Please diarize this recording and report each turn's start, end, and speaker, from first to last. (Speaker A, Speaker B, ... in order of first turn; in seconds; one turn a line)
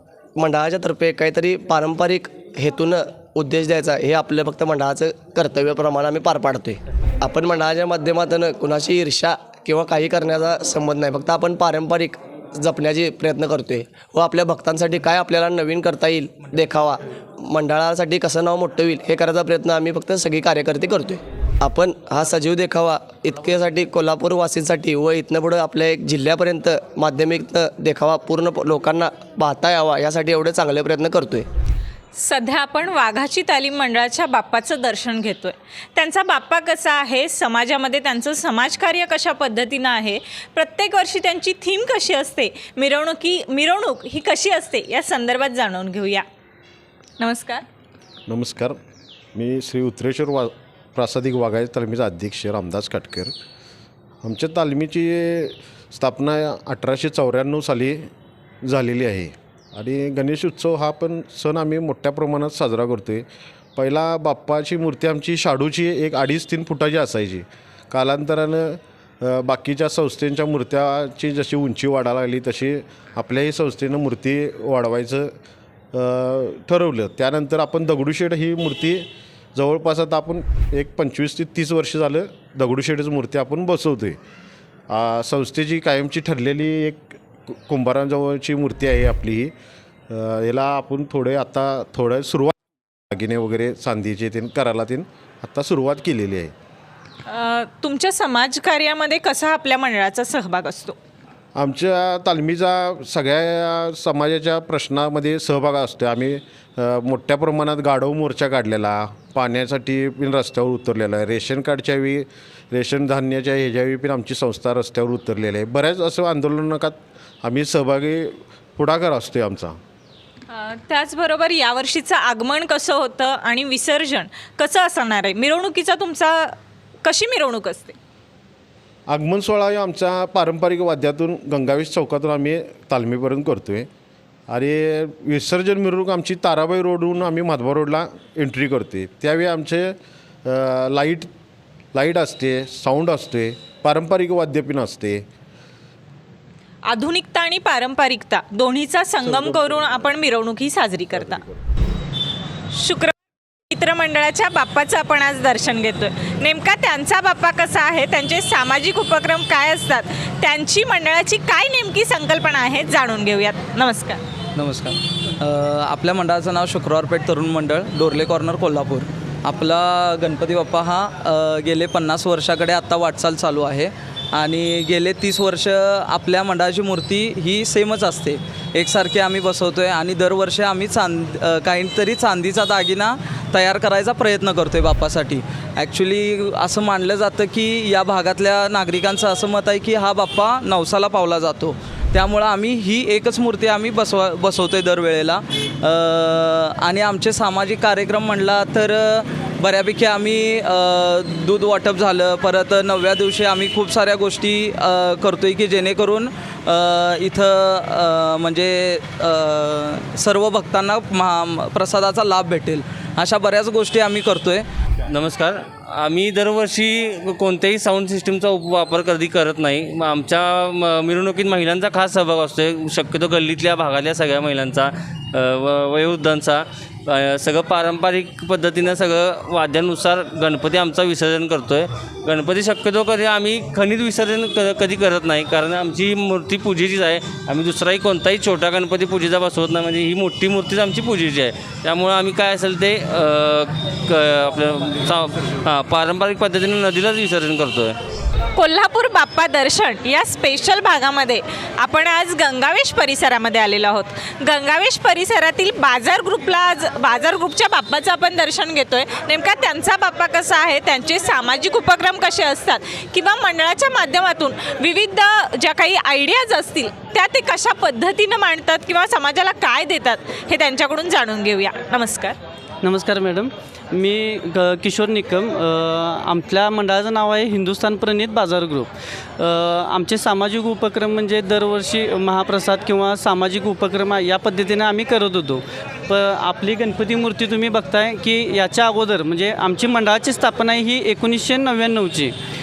Speaker A: 0.4-31.4
Speaker B: 32.1-46.2
Speaker B: 47.2-47.6
Speaker C: 48.3-48.8
Speaker C: 49.4-53.3
Speaker C: 54.2-58.1
Speaker C: 58.6-75.3
Speaker C: 75.9-84.2
Speaker C: 84.9-89.5
Speaker C: 90.1-92.5
Speaker C: 93.1-96.5
Speaker B: 97.3-101.0
Speaker C: 101.5-119.8
Speaker B: 120.5-128.0
Speaker C: 129.1-133.9
Speaker C: 134.5-141.3
Speaker C: 141.9-145.2
Speaker B: 146.9-151.4
Speaker C: 149.2-150.1
Speaker C: 151.2-151.6
Speaker B: 152.7-153.1
Speaker B: 153.7-164.2
Speaker D: 164.6-214.7
Speaker E: 215.1-248.0
Speaker B: 248.6-272.4
Speaker F: 272.8-292.3